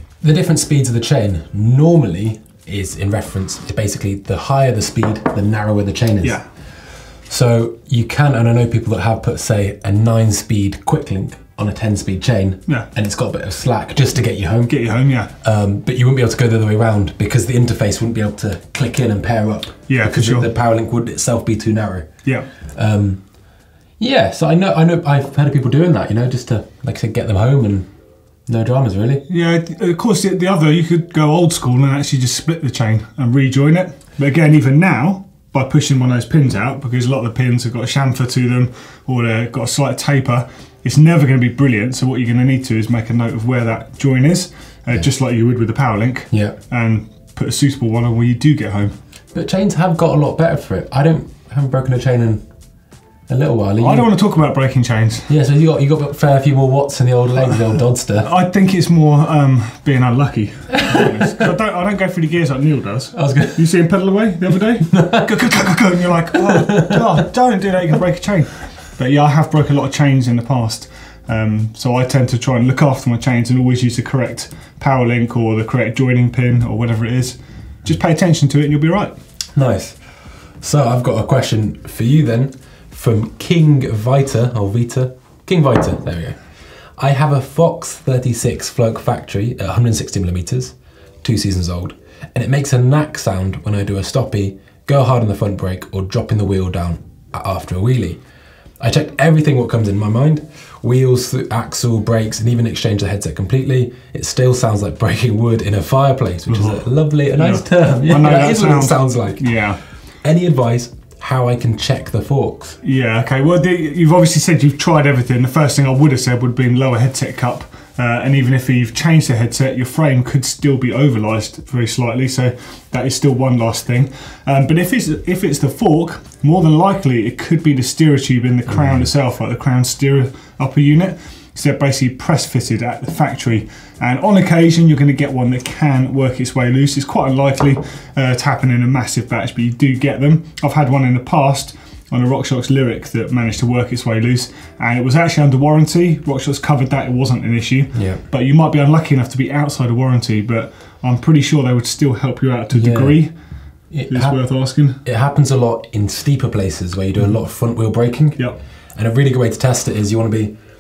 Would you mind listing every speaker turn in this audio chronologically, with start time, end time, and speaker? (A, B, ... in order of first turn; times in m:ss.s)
0:00.2-0:06.4 A
0:07.3-0:14.8 A
0:14.7-0:15.3 B
0:15.4-0:22.1 A
0:19.9-0:20.5 B
0:22.7-0:23.2 A
0:24.0-0:27.9 A
0:28.5-0:29.2 A
0:29.3-0:48.9 B
0:46.3-0:46.6 A
0:49.3-0:52.4 A
0:53.3-0:54.1 A
0:53.8-0:55.3 B
0:55.3-0:58.3 A
0:58.2-1:19.1 B
1:03.2-1:03.6 A
1:04.9-1:05.4 A
1:06.5-1:07.0 A
1:19.6-1:20.0 A
1:20.6-1:26.4 A
1:27.0-1:38.2 A
1:38.8-1:49.7 A
1:46.5-1:46.9 B
1:47.4-1:49.8 B
1:50.2-1:52.8 A
1:52.8-2:33.3 B
2:08.7-2:09.0 A
2:27.9-2:28.2 A
2:32.7-2:33.2 A
2:33.9-2:34.4 A
2:34.1-2:35.0 B
2:35.0-2:38.4 A
2:39.0-2:40.5 A